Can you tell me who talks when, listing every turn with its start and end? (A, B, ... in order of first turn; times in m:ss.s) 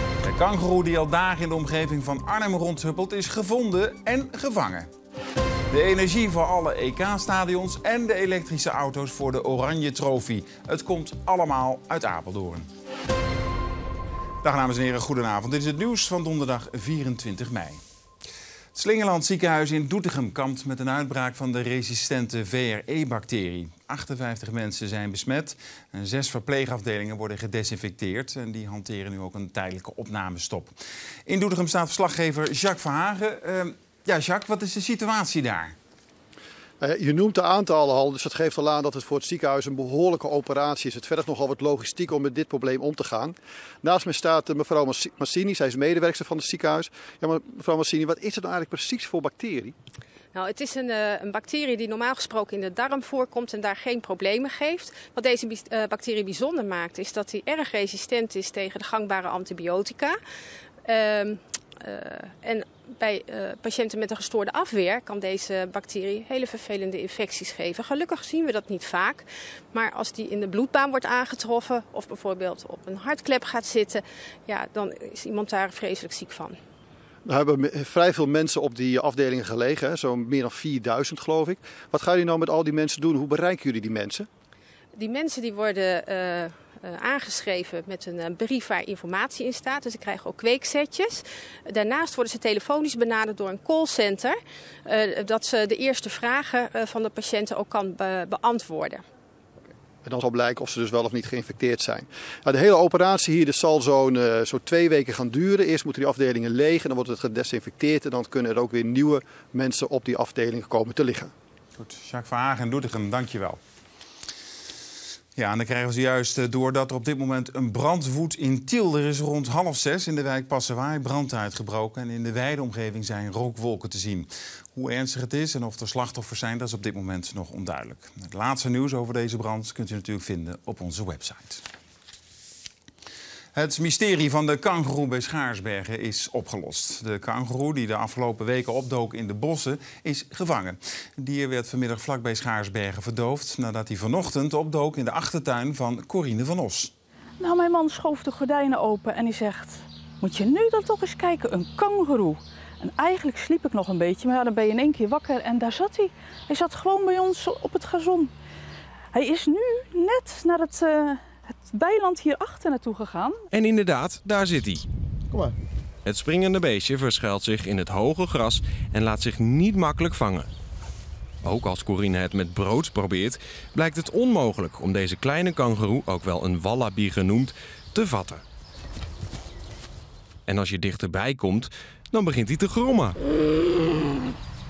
0:00.2-0:04.9 A
0:05.7-0:12.7 A
0:14.4-0:17.8 A
0:18.7-0:30.7 A
0:31.3-0:35.7 A
0:36.8-0:49.7 B
0:50.3-1:00.2 C
1:00.8-1:16.6 C
1:17.2-1:24.3 B
1:24.9-1:39.0 C
1:40.0-1:51.3 B
1:51.8-1:53.6 A
1:55.4-2:11.6 A
2:13.5-2:26.9 A
2:27.4-2:38.3 D
2:39.1-2:43.4 D
2:43.5-2:44.8 E
2:46.0-2:50.5 E
2:51.4-2:58.4 E
3:00.5-3:03.2 E